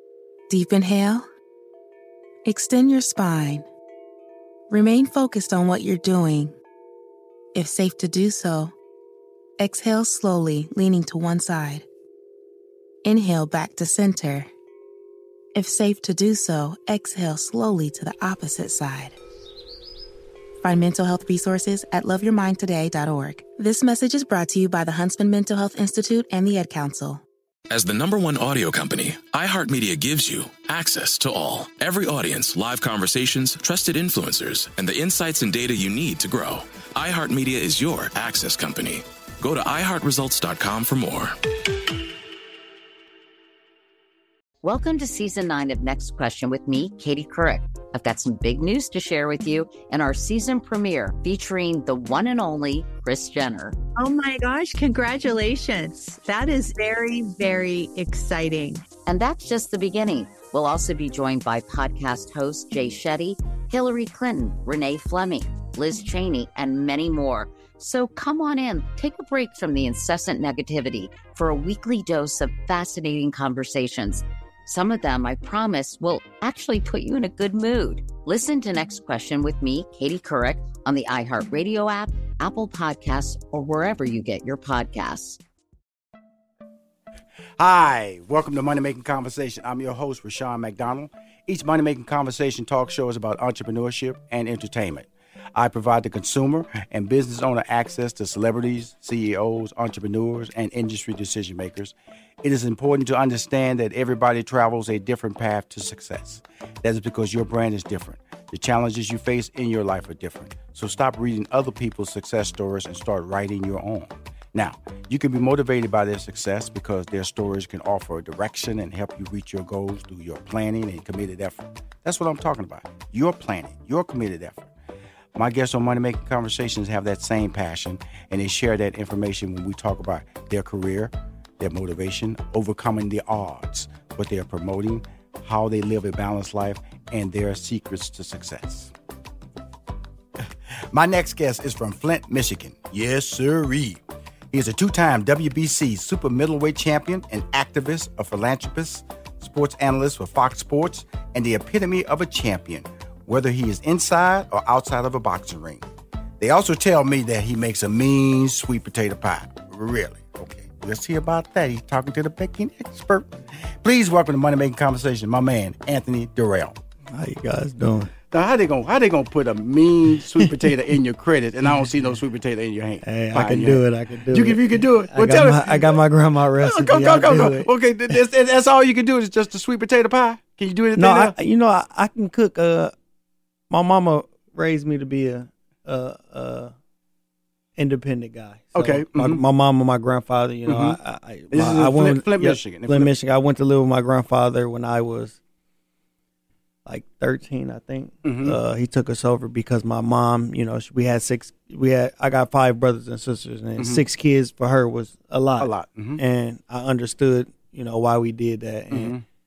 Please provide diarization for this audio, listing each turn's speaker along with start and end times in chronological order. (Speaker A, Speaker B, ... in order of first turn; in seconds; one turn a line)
Speaker A: 0.5-1.3
Speaker A: 2.4-3.6
Speaker A: 4.7-6.5
Speaker A: 7.5-8.7
Speaker A: 9.6-11.8
Speaker A: 13.0-14.5
Speaker A: 15.5-19.1
Speaker A: 20.6-27.2
Speaker B: 27.7-41.4
Speaker C: 44.6-53.8
Speaker D: 54.0-58.8
Speaker C: 59.0-85.4
Speaker E: 87.6-124.7
Speaker E: 125.3-138.9
Speaker E: 140.4-155.8
Speaker E: 156.4-166.8
Speaker F: 167.1-168.1
Speaker E: 168.3-176.0
Speaker F: 170.3-170.8
Speaker F: 173.0-177.7
Speaker E: 176.6-181.3
Speaker F: 180.9-182.9
Speaker F: 183.7-186.7
Speaker F: 187.8-195.4
Speaker E: 188.7-189.4
Speaker E: 190.7-191.0
Speaker E: 191.5-193.1
Speaker F: 196.8-209.2
Speaker E: 198.2-198.6
Speaker E: 203.8-204.0
Speaker E: 205.6-206.2
Speaker E: 208.9-209.2